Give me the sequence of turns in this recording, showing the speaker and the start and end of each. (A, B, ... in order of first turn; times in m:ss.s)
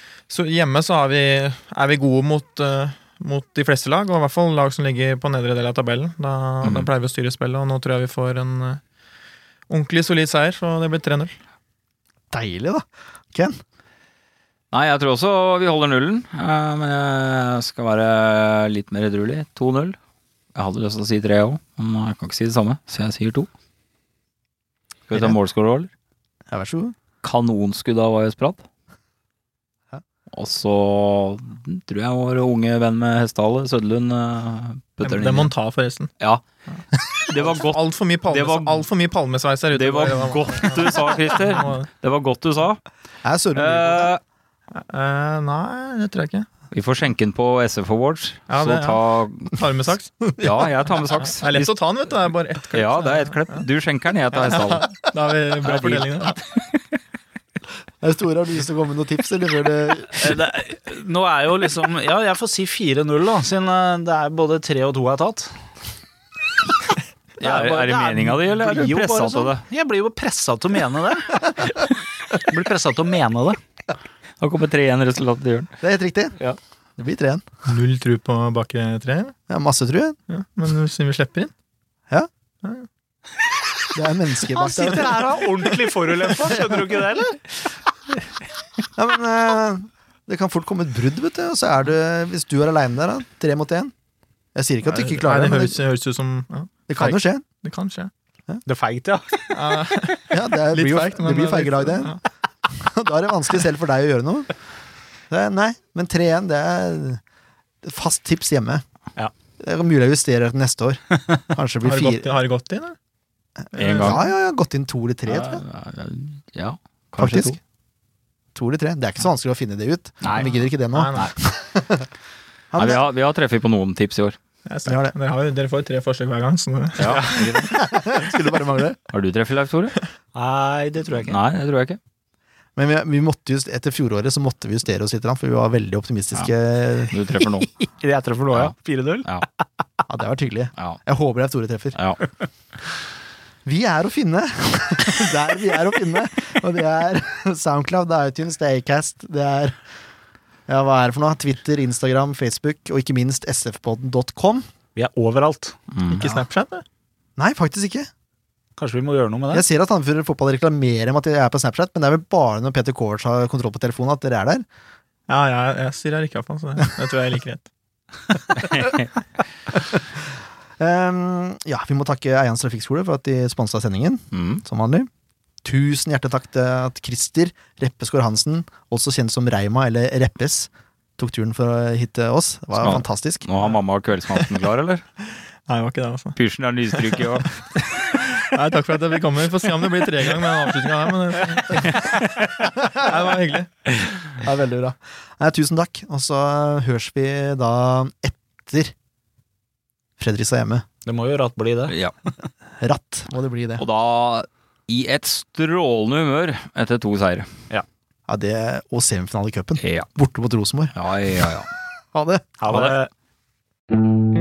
0:00.3-0:08.8 A
0:06.6-0:06.9 B
0:09.7-0:11.3 A
0:12.3-0:13.6 C
0:14.7-0:20.0 B
0:20.5-0:23.5 B
0:25.1-0:25.9 B
0:26.5-0:27.0 C
0:27.2-0:28.6 B
0:30.3-0:35.5 B
0:35.0-0:36.1 A
0:37.2-0:38.9 B
0:37.4-0:41.9 A
0:39.7-0:42.8 B
0:43.2-0:44.1 C
0:43.6-0:44.2 B
0:44.8-0:46.5 A
0:46.7-0:49.6 B
0:48.5-0:50.1 A
0:50.4-0:51.8 B
0:51.3-0:53.6 A
0:52.7-0:54.9 B
0:54.3-0:56.4 A
0:55.6-0:56.8 B
0:58.0-1:00.2 C
1:00.2-1:05.5 D
1:07.4-1:09.6 B
1:07.4-1:13.6 D
1:14.4-1:15.7 B
1:15.8-1:16.4 C
1:17.0-1:17.4 C
1:17.7-1:19.4 A
1:19.5-1:20.2 C
1:20.3-1:21.5 A
1:23.9-1:25.4 C
1:24.5-1:27.4 D
1:26.5-1:26.8 C
1:29.0-1:33.9 C
1:34.6-1:35.8 C
1:34.9-1:38.1 A
1:36.9-1:37.4 C
1:38.7-1:39.9 D
1:39.5-1:42.2 A
1:40.3-1:42.2 C
1:42.7-1:44.5 C
1:45.3-1:47.2 C
1:47.8-1:48.8 C
1:49.6-1:52.3 C
1:51.8-1:53.0 A
1:53.6-1:55.6 C
1:53.7-1:54.2 A
1:53.8-1:54.3 B
1:55.3-1:57.6 B
1:57.2-1:57.6 C
1:58.6-2:02.1 C
2:00.2-2:00.5 D
2:00.4-2:01.3 A
2:02.7-2:03.0 C
2:02.8-2:04.4 B
2:04.7-2:07.7 A
2:04.9-2:05.1 C
2:07.0-2:07.7 B
2:07.1-2:07.7 D
2:07.7-2:09.0 C
2:09.1-2:10.0 B
2:10.4-2:11.4 D
2:11.2-2:12.0 B
2:12.8-2:17.1 C
2:17.1-2:17.7 B
2:17.8-2:19.5 D
2:18.5-2:19.5 B
2:20.1-2:22.0 C
2:23.6-2:29.8 C
2:30.7-2:34.7 C
2:35.0-2:35.8 D
2:35.9-2:36.2 B
2:36.1-2:36.8 A
2:37.4-2:38.1 C
2:38.8-2:39.6 D
2:39.5-2:44.6 C
2:45.3-2:47.7 A
2:48.6-2:49.1 B
2:49.8-2:50.0 C
2:50.8-2:55.1 C
2:54.3-2:54.6 B
2:55.6-3:03.5 C
3:02.8-3:05.0 B
3:05.7-3:06.4 A
3:06.4-3:08.1 B
3:06.9-3:07.2 A
3:08.1-3:12.2 A
3:12.9-3:13.7 A
3:14.4-3:18.9 C
3:20.2-3:20.8 C
3:21.1-3:21.9 D
3:21.9-3:22.1 B
3:22.8-3:23.8 C
3:23.8-3:27.5 B
3:28.3-3:31.0 C
3:29.8-3:30.1 B
3:30.9-3:31.7 B
3:32.1-3:32.5 C
3:32.6-3:33.1 D
3:32.7-3:33.0 B